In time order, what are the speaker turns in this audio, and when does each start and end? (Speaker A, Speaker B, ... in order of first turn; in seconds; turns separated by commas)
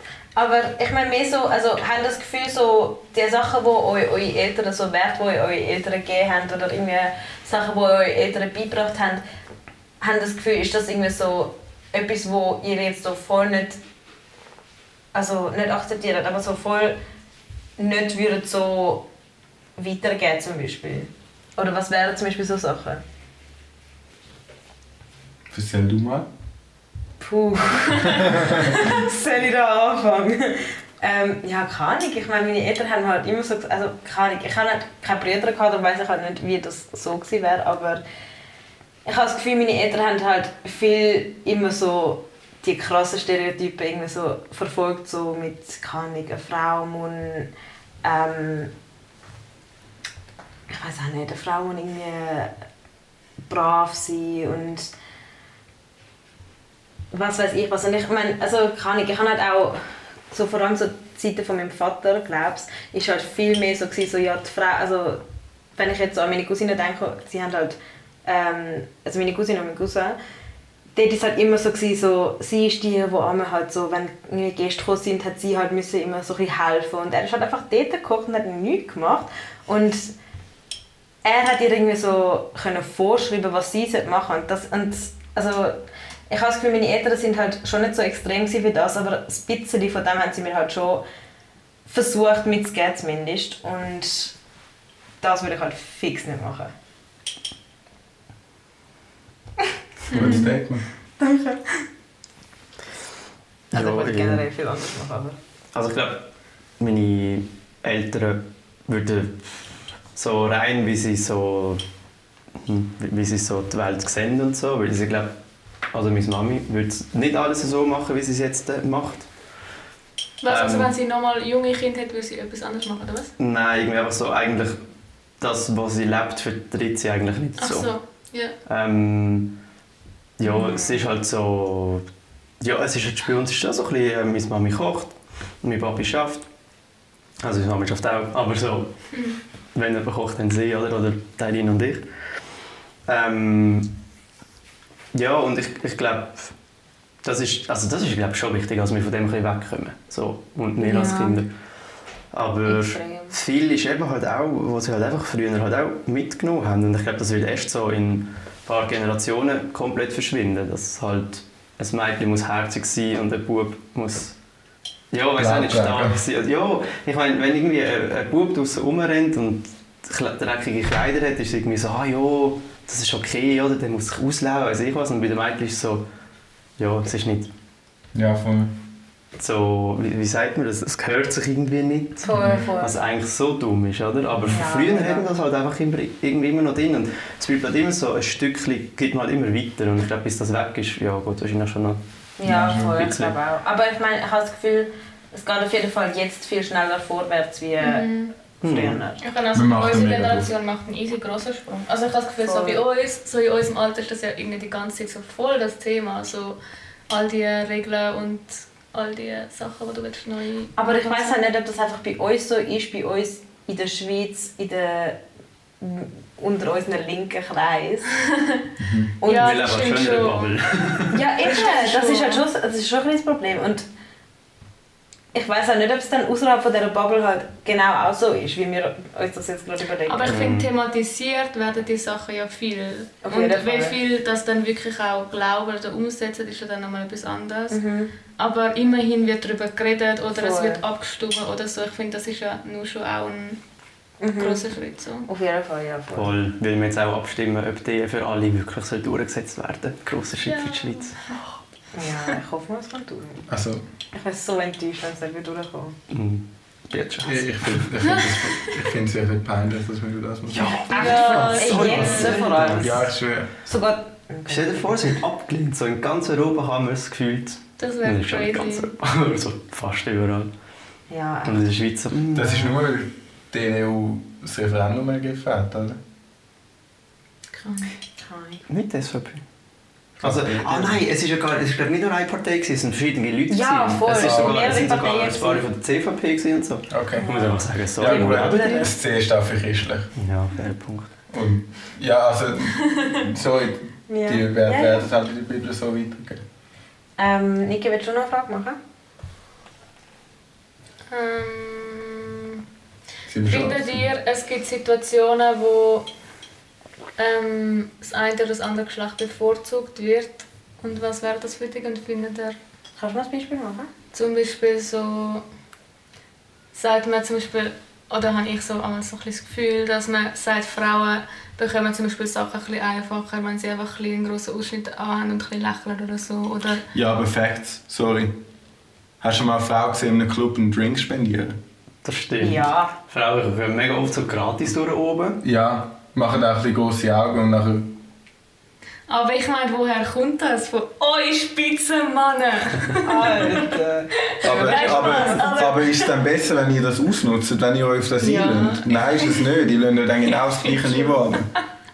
Speaker A: 0.3-9.2, Speaker A: 10.0-13.8, Speaker A: 15.1-17.0, Speaker A: 17.8-19.1, Speaker A: 19.8-23.0, Speaker B: 25.5-26.3, Speaker A: 27.2-38.0, Speaker B: 28.1-28.6, Speaker A: 39.0-47.5, Speaker A: 48.0-48.7, Speaker A: 50.7-52.5, Speaker A: 53.5-54.9, Speaker A: 57.1-65.2, Speaker A: 65.8-70.2, Speaker A: 71.0-80.1, Speaker A: 81.2-91.0, Speaker A: 91.9-94.3, Speaker A: 95.2-96.7, Speaker A: 100.1-100.6, Speaker B: 100.1-100.9, Speaker A: 101.2-101.8, Speaker C: 103.7-104.4, Speaker A: 103.7-105.4, Speaker C: 105.7-111.8, Speaker C: 112.6-115.4, Speaker C: 115.9-119.3, Speaker D: 120.4-123.3, Speaker C: 120.5-120.9, Speaker C: 123.4-124.8, Speaker C: 125.4-127.9, Speaker D: 127.6-128.6, Speaker C: 128.7-129.6, Speaker C: 130.4-132.1, Speaker A: 130.4-131.0, Speaker C: 132.6-136.5, Speaker C: 137.4-138.9, Speaker C: 139.7-142.1, Speaker C: 143.1-143.9, Speaker C: 145.1-146.5, Speaker C: 147.2-151.5, Speaker A: 150.8-151.4, Speaker C: 152.3-164.4, Speaker A: 152.7-153.4, Speaker C: 165.1-176.1, Speaker B: 165.4-166.2, Speaker C: 176.8-177.5, Speaker B: 178.1-178.8, Speaker C: 179.4-192.0, Speaker A: 182.2-183.0, Speaker B: 182.3-182.7, Speaker A: 184.5-185.3, Speaker A: 192.4-199.2, Speaker B: 192.4-193.0, Speaker C: 192.8-193.3, Speaker D: 197.8-198.3, Speaker C: 198.6-199.0, Speaker D: 199.2-206.6, Speaker B: 199.5-200.5, Speaker A: 202.4-202.8, Speaker D: 207.1-211.4, Speaker A: 210.8-215.2, Speaker A: 215.8-218.3, Speaker B: 218.8-219.1, Speaker A: 219.2-219.6, Speaker D: 219.2-220.5, Speaker C: 219.3-221.2, Speaker A: 221.1-223.9, Speaker D: 221.4-222.4, Speaker A: 225.3-230.4, Speaker D: 230.1-237.8, Speaker C: 230.2-230.7, Speaker A: 233.2-234.0, Speaker A: 237.7-238.1, Speaker D: 238.4-243.6, Speaker A: 240.3-240.8, Speaker A: 244.2-244.7, Speaker D: 244.4-245.3, Speaker A: 245.3-246.4, Speaker C: 246.1-251.4, Speaker D: 250.4-251.4, Speaker A: 251.9-253.5, Speaker B: 253.5-253.8, Speaker A: 254.1-256.0, Speaker C: 256.1-257.9, Speaker B: 257.2-260.9, Speaker D: 258.0-258.6, Speaker C: 260.5-263.0, Speaker D: 260.9-262.7, Speaker A: 260.9-263.1, Speaker B: 262.7-263.5, Speaker A: 263.6-265.1, Speaker C: 264.5-270.5, Speaker D: 267.8-268.9, Speaker A: 271.1-271.7, Speaker C: 271.4-272.8, Speaker B: 272.3-276.0, Speaker D: 277.6-277.9, Speaker A: 278.2-278.6, Speaker C: 278.7-279.4, Speaker B: 280.2-281.0, Speaker C: 280.2-288.9, Speaker A: 283.5-285.6, Speaker B: 284.1-284.7, Speaker B: 286.9-287.3, Speaker A: 287.2-288.9, Speaker B: 287.9-290.1, Speaker C: 290.2-291.1, Speaker B: 291.3-296.4, Speaker A: 294.1-295.1, Speaker A: 297.2-298.8, Speaker D: 301.1-302.6, Speaker B: 303.3-304.0, Speaker D: 303.5-306.1, Speaker D: 307.2-312.6, Speaker A: 313.0-313.9, Speaker D: 314.1-315.4, Speaker D: 316.7-326.9, Speaker B: 326.9-328.4, Speaker B: 329.2-331.6, Speaker C: 332.0-335.4, Speaker A: 332.4-332.9, Speaker B: 335.4-338.0, Speaker D: 339.1-343.8, Speaker A: 343.0-345.7, Speaker B: 344.4-351.5, Speaker D: 344.5-346.2, Speaker D: 348.2-349.5, Speaker D: 350.3-351.2